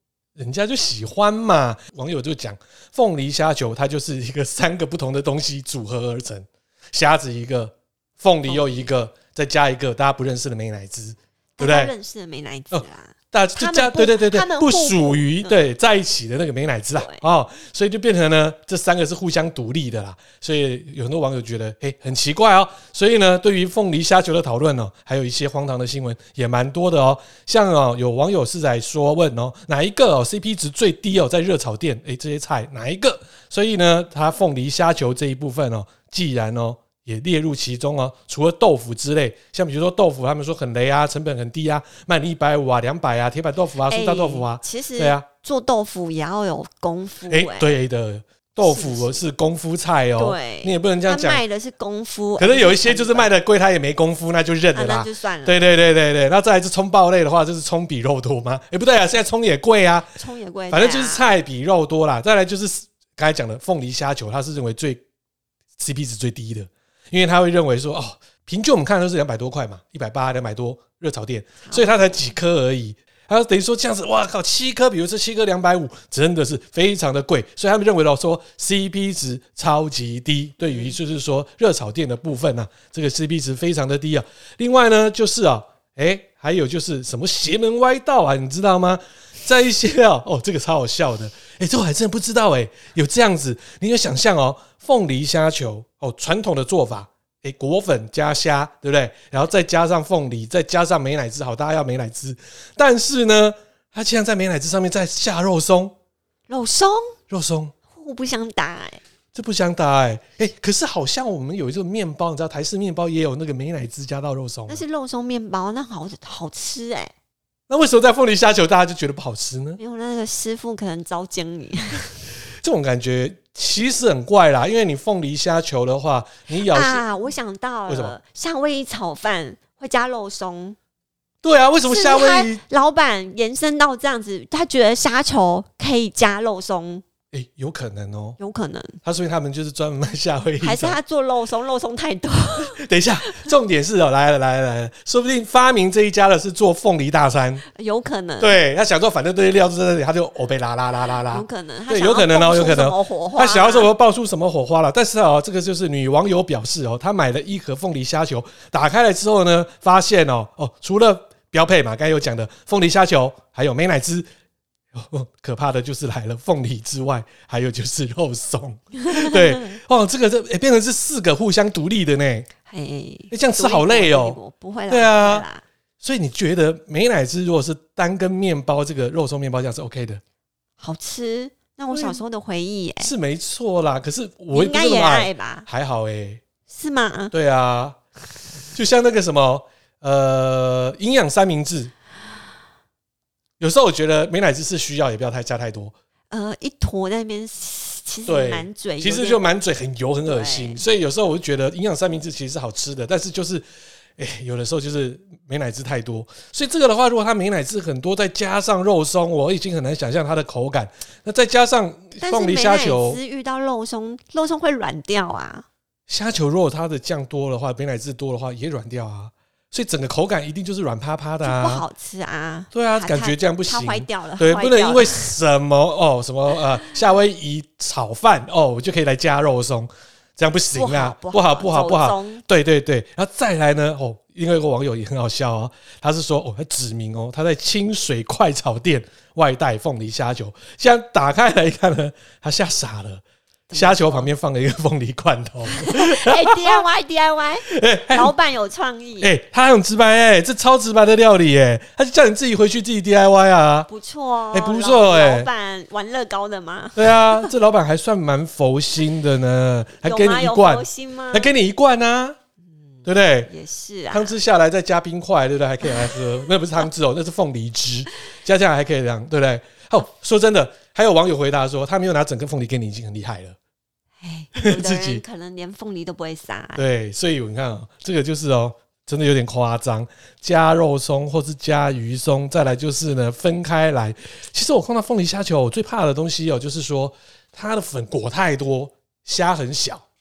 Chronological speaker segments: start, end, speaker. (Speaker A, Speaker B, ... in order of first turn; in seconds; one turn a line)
Speaker A: 0.3-11.9
Speaker B: 8.5-8.9
Speaker B: 11.6-15.6
Speaker A: 12.7-45.2
Speaker B: 17.0-17.2
Speaker B: 43.9-47.8
Speaker A: 47.3-51.4
Speaker B: 48.6-49.2
Speaker B: 50.2-53.3
Speaker A: 52.4-60.1
Speaker B: 54.7-55.6
Speaker B: 60.1-61.3
Speaker A: 60.7-65.0
Speaker A: 65.8-105.9
Speaker B: 71.6-72.3
Speaker B: 80.6-81.0
Speaker B: 106.5-107.2
Speaker A: 107.3-107.7
Speaker B: 107.9-109.0
Speaker A: 109.3-114.8
Speaker B: 114.7-117.1
Speaker A: 117.7-119.8
Speaker B: 119.8-122.2
Speaker A: 122.6-127.0
Speaker B: 126.5-130.8
Speaker A: 127.9-128.1
Speaker A: 131.4-132.6
Speaker B: 131.8-137.0
Speaker A: 137.3-138.4
Speaker B: 138.4-139.0
Speaker A: 139.0-141.0
Speaker B: 140.6-143.5
Speaker A: 142.6-147.6
Speaker B: 147.7-148.6
Speaker A: 148.4-164.3
Speaker B: 151.3-153.9
Speaker A: 164.9-172.5
Speaker B: 169.0-169.8
Speaker B: 172.7-175.6
Speaker A: 173.3-174.4
Speaker A: 174.9-175.4
Speaker A: 176.0-180.2
Speaker B: 180.8-183.1
Speaker A: 181.9-182.2
Speaker A: 183.0-186.4
Speaker B: 184.5-185.7
Speaker B: 186.7-187.3
Speaker A: 187.3-188.0
Speaker A: 188.7-191.9
Speaker A: 193.6-195.9
Speaker B: 196.3-199.5
Speaker A: 198.3-203.6
Speaker B: 200.2-200.8
Speaker A: 204.2-213.2
Speaker B: 212.2-215.7
Speaker A: 216.1-221.8
Speaker B: 221.4-225.3
Speaker A: 222.7-243.2
Speaker B: 230.7-232.4
Speaker B: 243.7-244.3
Speaker A: 243.7-246.8
Speaker B: 245.7-249.3
Speaker A: 247.7-248.3
Speaker A: 249.2-253.9
Speaker B: 253.9-257.5
Speaker A: 254.5-255.5
Speaker A: 256.9-262.4
Speaker B: 260.0-261.5
Speaker B: 263.0-264.4
Speaker A: 263.0-263.5
Speaker A: 264.1-273.6
Speaker B: 265.9-266.2
Speaker B: 274.2-276.8
Speaker A: 274.6-275.2
Speaker A: 276.8-290.0